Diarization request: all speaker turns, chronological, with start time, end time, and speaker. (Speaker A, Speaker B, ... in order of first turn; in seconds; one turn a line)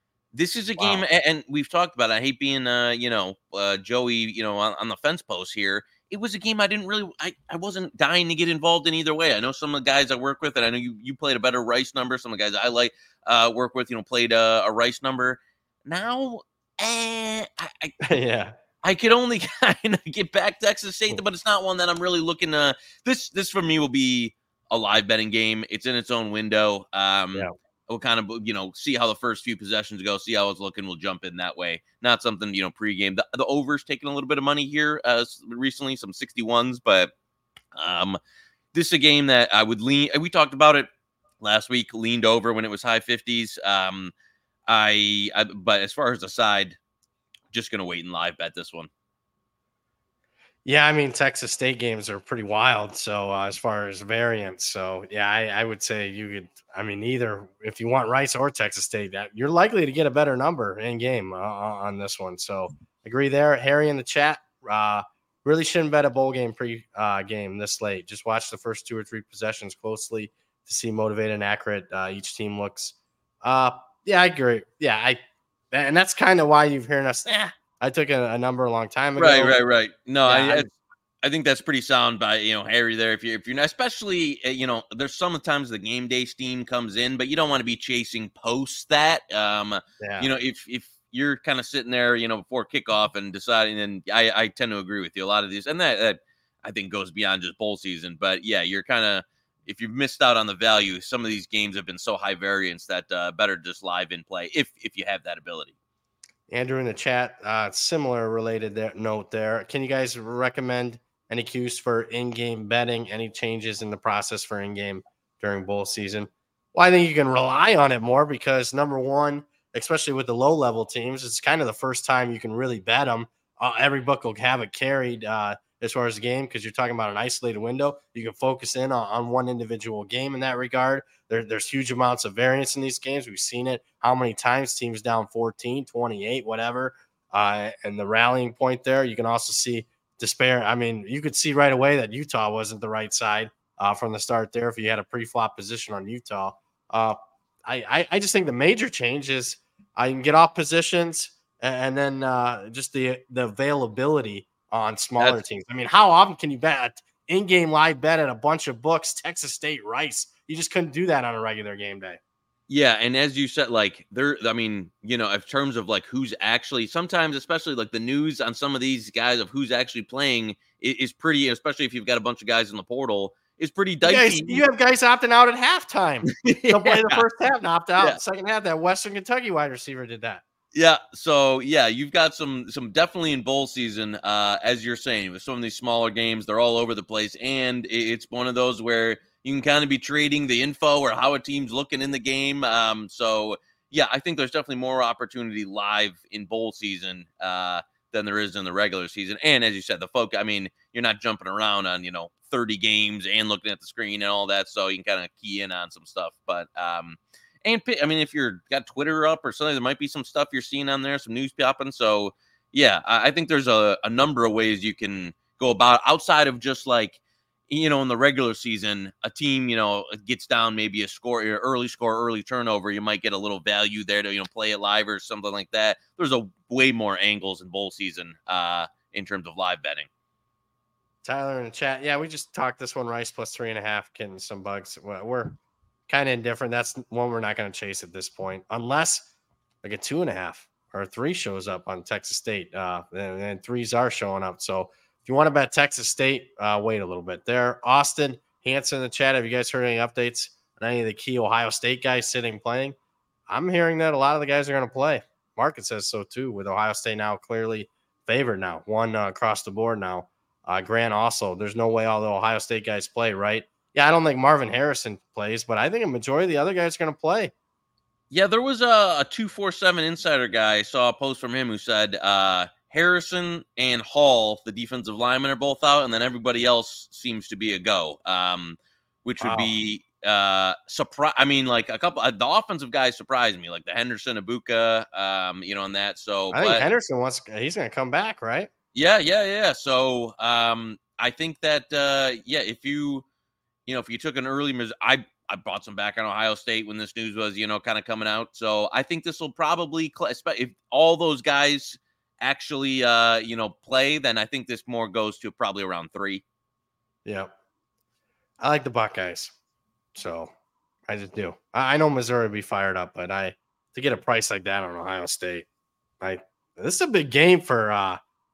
Speaker A: 0.3-18.0
Speaker B: 0.8-1.0
Speaker B: 18.1-18.6
Speaker A: 18.8-37.1
Speaker A: 37.8-38.2
Speaker A: 38.7-40.9
Speaker A: 41.4-44.1
Speaker A: 44.7-46.8
Speaker A: 47.5-48.9
Speaker B: 50.6-75.2
Speaker B: 75.7-79.5
Speaker A: 79.2-80.7
Speaker B: 80.3-80.7
Speaker A: 81.2-105.7
Speaker B: 90.0-90.3
Speaker B: 106.5-162.2
Speaker A: 162.7-174.6
Speaker B: 174.1-180.4
Speaker A: 176.3-177.2
Speaker A: 180.7-230.1
Speaker B: 231.2-235.6
Speaker B: 236.1-239.3
Speaker B: 239.8-253.0
Speaker B: 253.5-267.5
Speaker A: 268.3-286.9
Speaker B: 279.4-279.7
Speaker B: 286.5-288.7
Speaker A: 288.9-293.2
Speaker A: 293.9-306.4
Speaker B: 307.2-307.5
Speaker B: 308.6-309.5
Speaker B: 310.1-310.5
Speaker B: 311.1-315.7
Speaker B: 316.2-318.2